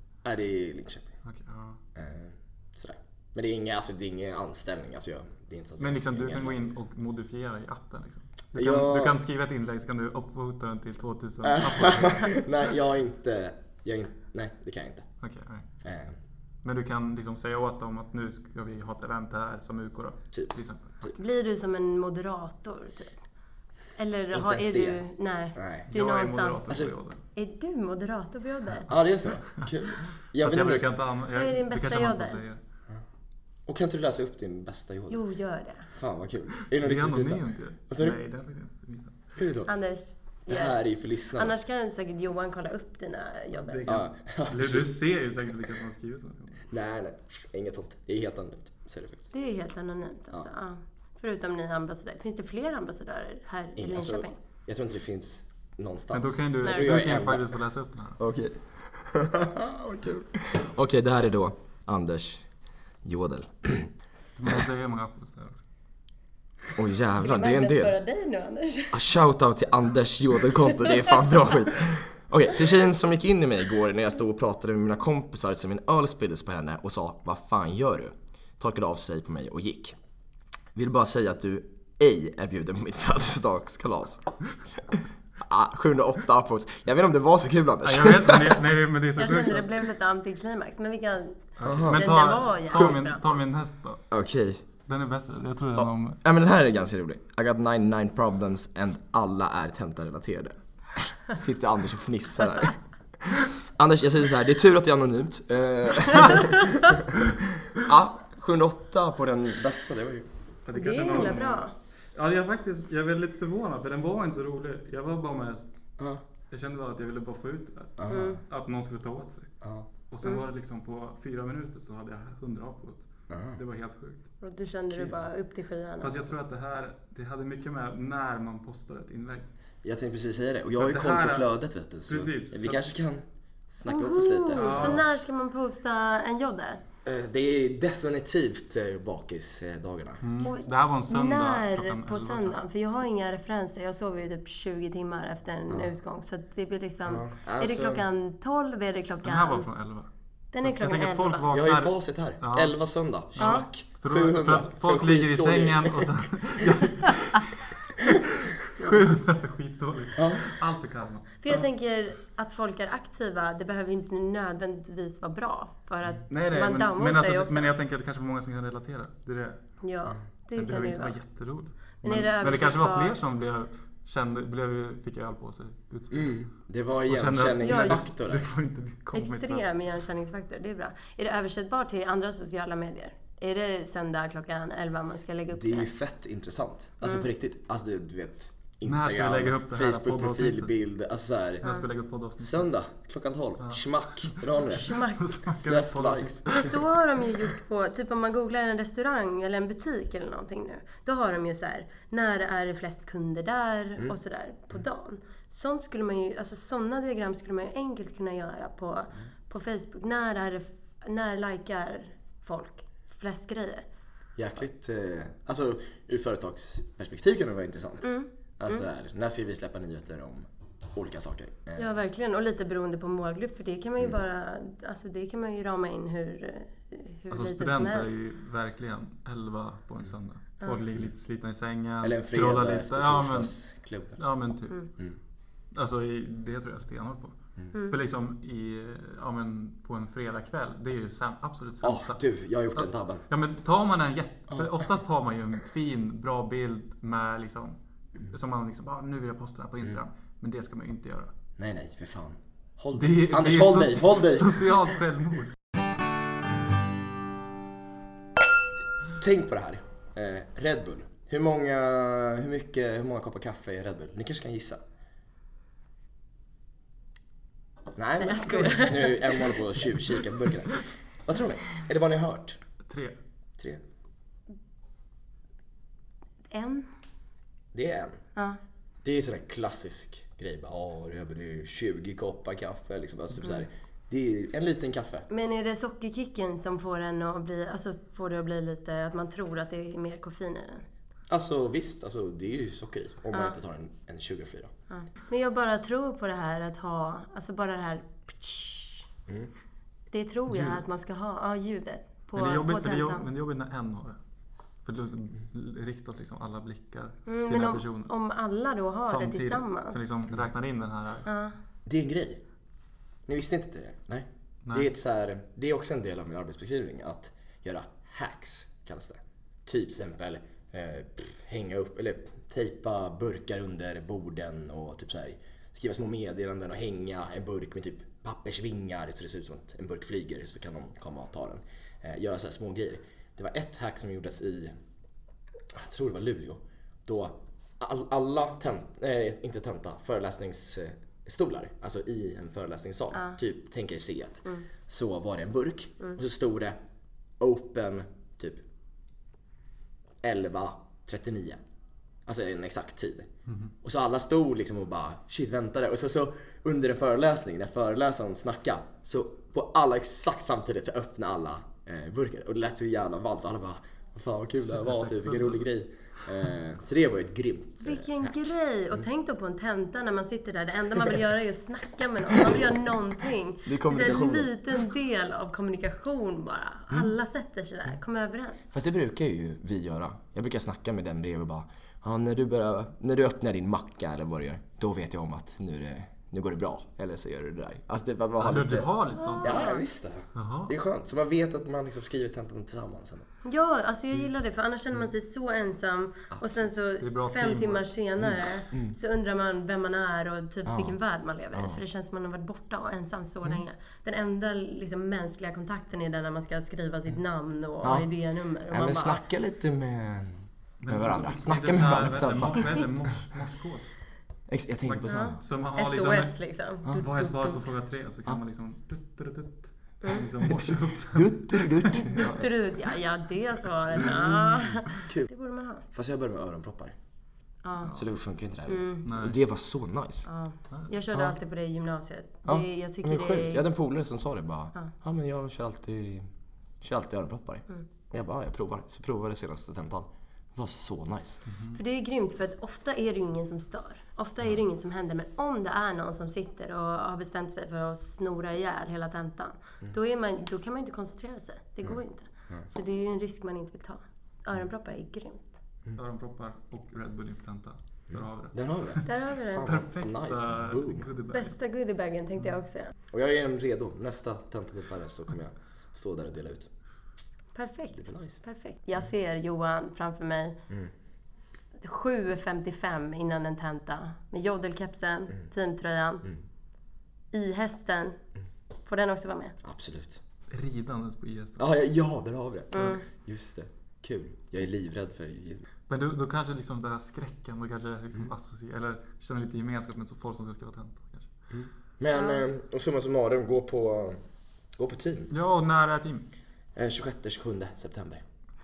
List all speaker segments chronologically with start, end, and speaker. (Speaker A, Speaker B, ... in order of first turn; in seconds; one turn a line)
Speaker A: 0.2-1.1
Speaker B: 1.2-1.8
Speaker A: 1.9-6.8
Speaker B: 5.8-12.4
Speaker A: 8.5-9.2
Speaker A: 11.4-15.1
Speaker B: 15.2-15.7
Speaker A: 15.8-16.2
Speaker B: 16.6-21.0
Speaker A: 20.3-21.1
Speaker C: 21.1-23.2
Speaker C: 24.0-26.6
Speaker A: 24.3-25.0
Speaker A: 25.5-25.9
Speaker B: 25.9-27.2
Speaker A: 26.7-26.9
Speaker C: 27.3-28.9
Speaker A: 28.9-30.9
Speaker B: 30.4-32.6
Speaker C: 31.3-32.4
Speaker A: 33.7-35.2
Speaker C: 35.1-35.9
Speaker A: 35.9-38.2
Speaker B: 36.6-39.2
Speaker A: 39.4-39.7
Speaker C: 39.7-40.8
Speaker A: 40.5-41.5
Speaker C: 41.3-44.0
Speaker B: 43.5-46.7
Speaker A: 43.9-45.0
Speaker A: 46.7-49.3
Speaker C: 49.3-54.4
Speaker A: 53.8-57.5
Speaker B: 56.1-58.2
Speaker C: 56.6-57.0
Speaker A: 58.2-62.5
Speaker A: 63.0-63.9
Speaker B: 64.3-65.6
Speaker A: 66.8-68.0
Speaker C: 67.2-69.1
Speaker A: 68.9-80.0
Speaker C: 70.6-71.2
Speaker A: 80.7-88.6
Speaker B: 87.8-89.8
Speaker C: 89.2-93.2
Speaker B: 91.6-94.0
Speaker A: 91.6-92.1
Speaker A: 94.1-94.6
Speaker B: 94.8-96.2
Speaker A: 95.8-110.3
Speaker B: 110.6-115.8
Speaker C: 110.7-111.7
Speaker A: 111.1-111.5
Speaker B: 116.5-119.5
Speaker A: 118.0-118.4
Speaker C: 118.1-118.4
Speaker A: 119.6-119.9
Speaker B: 120.1-124.2
Speaker A: 123.3-123.6
Speaker C: 124.4-126.2
Speaker A: 124.9-125.2
Speaker B: 126.0-129.5
Speaker A: 129.8-135.0
Speaker B: 130.8-131.5
Speaker B: 132.1-132.8
Speaker C: 133.9-136.8
Speaker B: 134.6-135.0
Speaker A: 137.0-140.2
Speaker B: 140.2-142.6
Speaker C: 140.4-149.7
Speaker A: 147.1-148.0
Speaker B: 149.2-150.1
Speaker C: 150.5-151.5
Speaker B: 150.6-152.7
Speaker A: 151.5-157.1
Speaker B: 153.3-161.3
Speaker C: 153.4-153.6
Speaker A: 157.9-158.2
Speaker A: 160.2-160.5
Speaker C: 161.4-167.7
Speaker B: 166.3-169.6
Speaker C: 169.8-171.2
Speaker B: 170.6-176.4
Speaker C: 172.0-173.2
Speaker A: 176.1-178.5
Speaker B: 177.1-179.7
Speaker C: 177.6-178.0
Speaker C: 179.1-185.9
Speaker A: 185.5-191.6
Speaker B: 188.8-190.7
Speaker B: 191.6-192.7
Speaker A: 192.4-196.4
Speaker B: 193.6-196.9
Speaker C: 194.7-195.4
Speaker C: 196.5-213.8
Speaker A: 214.3-221.9
Speaker C: 218.0-218.8
Speaker C: 221.8-228.1
Speaker B: 227.3-233.5
Speaker A: 232.0-234.2
Speaker B: 234.2-234.8
Speaker B: 235.7-242.2
Speaker A: 241.8-243.2
Speaker B: 242.8-251.3
Speaker A: 251.6-254.7
Speaker B: 252.9-255.5
Speaker A: 259.1-264.8
Speaker A: 267.9-272.6
Speaker C: 268.2-270.0
Speaker B: 272.8-273.1
Speaker C: 276.5-276.9
Speaker A: 277.7-278.2
Speaker A: 279.0-285.3
Speaker C: 285.3-290.8
Speaker A: 291.3-294.7
Speaker C: 294.9-299.1
Speaker C: 300.1-303.2
Speaker B: 300.5-300.8
Speaker B: 302.4-304.2
Speaker B: 304.8-308.1
Speaker C: 307.3-310.0
Speaker B: 309.0-311.3
Speaker C: 311.2-311.6
Speaker A: 311.9-312.4
Speaker A: 313.3-334.7
Speaker A: 335.7-346.8
Speaker C: 343.1-343.4
Speaker A: 347.4-348.6
Speaker A: 350.2-351.6
Speaker A: 352.2-353.3
Speaker A: 353.8-369.0
Speaker B: 364.7-365.6
Speaker C: 367.8-378.7
Speaker A: 372.3-372.8
Speaker A: 373.6-374.5
Speaker A: 378.7-393.3
Speaker B: 388.4-389.6
Speaker C: 389.1-389.8
Speaker B: 390.3-390.7
Speaker C: 393.4-409.2
Speaker A: 396.3-396.6
Speaker B: 397.0-397.9
Speaker A: 398.2-398.9
Speaker A: 400.6-400.9
Speaker A: 401.5-401.8
Speaker A: 407.8-408.1
Speaker A: 408.7-413.1
Speaker B: 410.8-413.9
Speaker A: 414.5-415.4
Speaker B: 414.9-416.3
Speaker C: 415.1-417.6
Speaker B: 416.9-422.0
Speaker A: 421.1-422.5
Speaker C: 421.9-425.9
Speaker A: 424.0-424.6
Speaker A: 425.9-426.9
Speaker C: 427.6-427.9
Speaker A: 427.9-430.3
Speaker C: 428.7-429.1
Speaker B: 429.0-429.4
Speaker C: 430.2-433.6
Speaker A: 432.4-436.3
Speaker A: 436.8-441.4
Speaker B: 441.5-441.8
Speaker C: 441.7-455.6
Speaker B: 456.0-459.1
Speaker A: 458.1-461.1
Speaker C: 459.0-459.6
Speaker B: 459.6-461.5
Speaker C: 461.3-462.9
Speaker A: 463.1-466.7
Speaker C: 467.5-470.6
Speaker A: 467.9-468.4
Speaker C: 471.8-476.3
Speaker C: 477.3-478.2
Speaker C: 478.9-479.6
Speaker A: 479.6-480.2
Speaker B: 480.5-481.6
Speaker A: 481.6-485.6
Speaker C: 482.7-483.0
Speaker B: 485.9-491.3
Speaker A: 491.5-494.2
Speaker C: 492.1-492.4
Speaker A: 494.8-495.3
Speaker B: 495.3-496.2
Speaker A: 496.7-498.2